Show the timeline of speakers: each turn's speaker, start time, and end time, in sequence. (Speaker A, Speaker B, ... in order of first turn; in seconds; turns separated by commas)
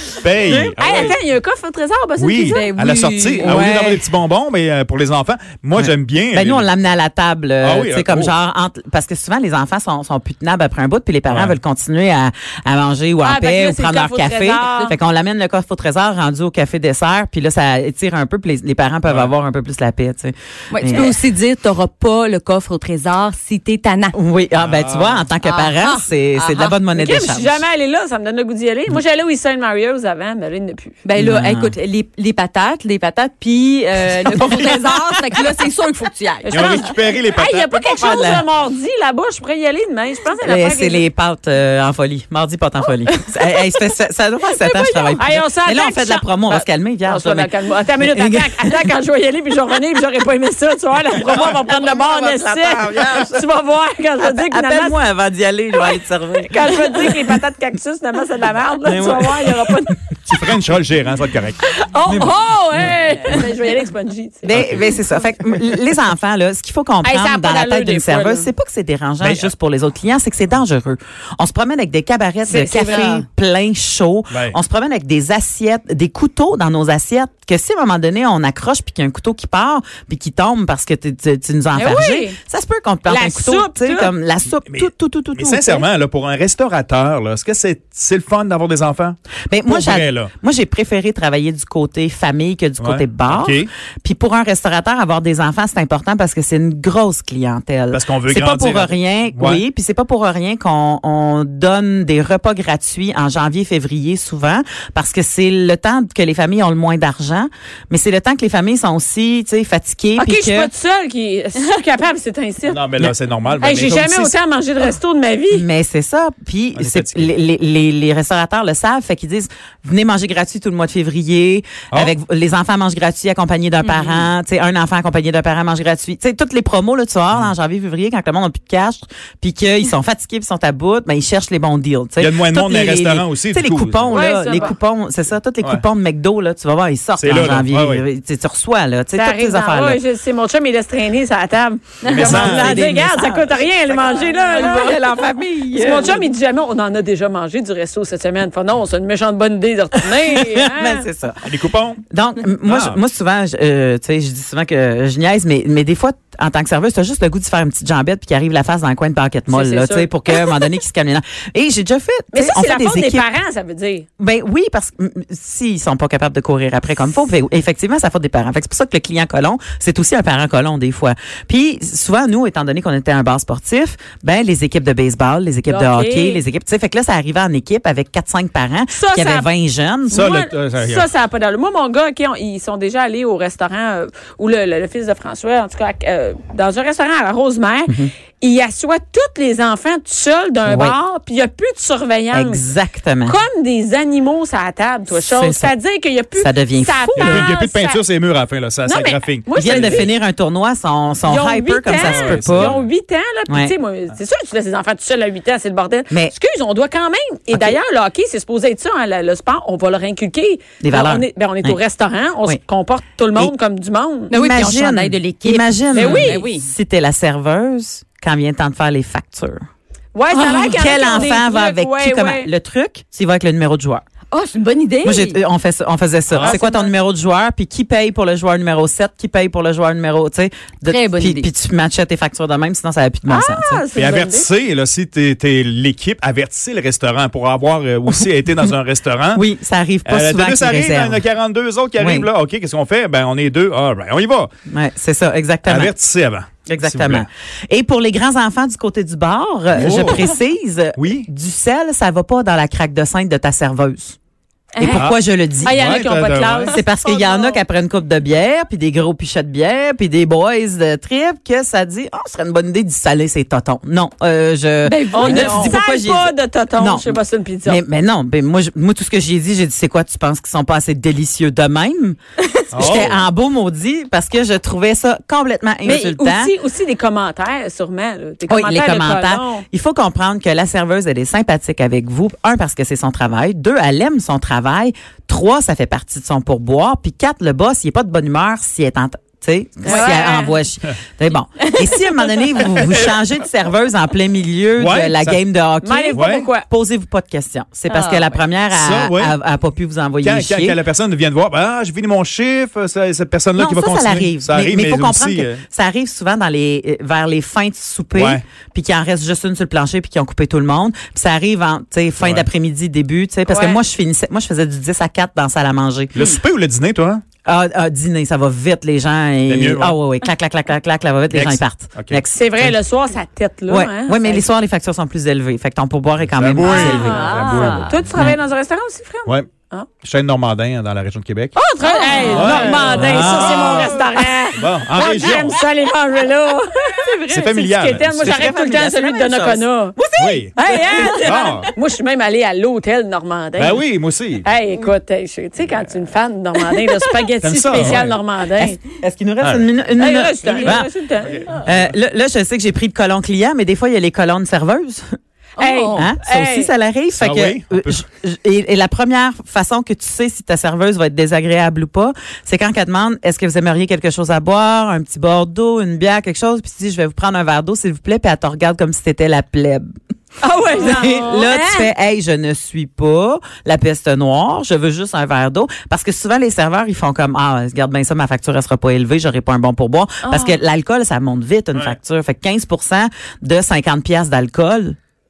Speaker A: 0.2-1.2, Speaker B: 0.5-2.7, Speaker A: 2.2-6.7, Speaker C: 2.5-3.7, Speaker D: 3.4-4.0, Speaker D: 5.7-21.2, Speaker A: 7.6-8.3, Speaker B: 13.2-15.0, Speaker C: 14.5-14.9, Speaker C: 20.7-24.2, Speaker D: 24.1-27.6, Speaker A: 24.6-25.3, Speaker C: 25.4-26.8, Speaker B: 26.9-31.0, Speaker C: 31.1-37.0, Speaker D: 31.1-31.8, Speaker B: 36.5-41.1, Speaker A: 36.5-38.5, Speaker D: 40.4-48.6, Speaker C: 44.7-45.2, Speaker B: 45.2-55.0, Speaker D: 51.3-53.4, Speaker D: 54.5-56.8, Speaker B: 55.8-59.9, Speaker D: 58.9-60.4, Speaker A: 60.3-61.6, Speaker B: 61.7-64.7, Speaker D: 64.5-85.9, Speaker B: 67.0-68.5, Speaker A: 69.2-69.5, Speaker B: 72.4-73.2, Speaker B: 81.7-82.4, Speaker B: 83.1-84.1, Speaker A: 84.7-89.2, Speaker D: 89.5-110.7, Speaker A: 89.7-90.3, Speaker A: 92.8-93.7, Speaker A: 97.9-99.6, Speaker B: 110.2-115.7, Speaker A: 112.7-114.3, Speaker D: 115.5-140.0, Speaker A: 116.8-117.2, Speaker A: 132.2-134.1, Speaker B: 134.1-134.8, Speaker A: 137.2-138.0, Speaker B: 139.2-145.0, Speaker C: 142.0-142.4, Speaker A: 142.1-142.8, Speaker D: 142.2-144.4, Speaker C: 144.1-146.2, Speaker D: 145.7-146.0, Speaker B: 145.7-151.1, Speaker D: 150.2-163.3, Speaker A: 151.4-152.0, Speaker A: 152.7-153.0, Speaker B: 159.5-160.1, Speaker B: 162.3-164.1, Speaker D: 164.2-180.3, Speaker B: 175.7-176.4, Speaker B: 178.9-179.5, Speaker B: 180.1-192.6, Speaker A: 180.1-181.1, Speaker D: 190.7-191.0, Speaker D: 192.3-193.4, Speaker B: 193.2-198.0, Speaker D: 195.1-195.8, Speaker D: 196.4-197.4, Speaker A: 197.2-200.0, Speaker B: 198.8-200.1, Speaker D: 199.5-202.8, Speaker B: 201.2-214.3, Speaker A: 202.1-202.9, Speaker D: 203.5-203.7, Speaker D: 207.5-207.8, Speaker D: 210.8-211.8, Speaker C: 214.3-215.7, Speaker D: 214.3-219.6, Speaker B: 215.9-216.5, Speaker C: 216.2-216.7, Speaker B: 220.2-222.5, Speaker C: 220.3-220.8, Speaker D: 220.7-224.0, Speaker C: 224.3-225.4, Speaker D: 225.0-233.9, Speaker A: 226.3-226.6, Speaker B: 226.4-226.9, Speaker C: 230.9-231.5, Speaker B: 233.3-234.5, Speaker A: 234.0-239.4, Speaker D: 239.3-241.2, Speaker A: 240.1-244.5, Speaker D: 242.0-242.3, Speaker D: 244.7-245.9, Speaker A: 245.7-247.2, Speaker D: 246.7-254.2, Speaker A: 249.8-250.2, Speaker A: 251.0-251.3, Speaker D: 254.8-255.8, Speaker B: 254.8-257.6, Speaker A: 255.8-256.8, Speaker D: 256.7-272.2, Speaker C: 264.8-265.8, Speaker B: 265.1-267.8, Speaker D: 272.7-276.5, Speaker A: 272.7-273.2, Speaker B: 275.8-279.6, Speaker D: 278.5-300.8, Speaker B: 289.9-290.6, Speaker A: 294.8-295.4, Speaker B: 295.8-296.7, Speaker A: 296.1-296.5, Speaker C: 297.9-298.4, Speaker A: 298.7-299.3, Speaker A: 300.2-305.6, Speaker D: 303.6-316.2, Speaker A: 308.2-308.4, Speaker B: 313.5-313.8, Speaker A: 316.1-317.2, Speaker D: 317.4-322.8, Speaker A: 319.5-319.9, Speaker A: 321.3-322.2, Speaker B: 322.3-324.5, Speaker D: 323.7-327.6, Speaker A: 326.4-328.1, Speaker B: 326.8-329.9, Speaker C: 326.8-327.9, Speaker D: 328.1-328.4, Speaker A: 330.1-331.6, Speaker B: 331.6-340.0, Speaker C: 331.8-332.4, Speaker D: 332.2-334.3, Speaker A: 332.3-334.0, Speaker A: 334.6-335.6, Speaker C: 337.0-337.7, Speaker A: 337.3-338.4, Speaker D: 338.3-341.3, Speaker A: 340.2-341.7, Speaker B: 340.6-343.9, Speaker A: 343.6-344.5, Speaker B: 344.4-348.8, Speaker A: 347.4-348.2, Speaker D: 348.6-350.9, Speaker B: 349.9-351.5, Speaker A: 351.2-351.8, Speaker D: 351.5-355.2, Speaker B: 355.6-356.7, Speaker C: 355.6-356.1, Speaker D: 355.9-369.9, Speaker A: 357.2-358.0, Speaker B: 370.4-371.9, Speaker D: 370.7-385.0, Speaker C: 380.3-380.6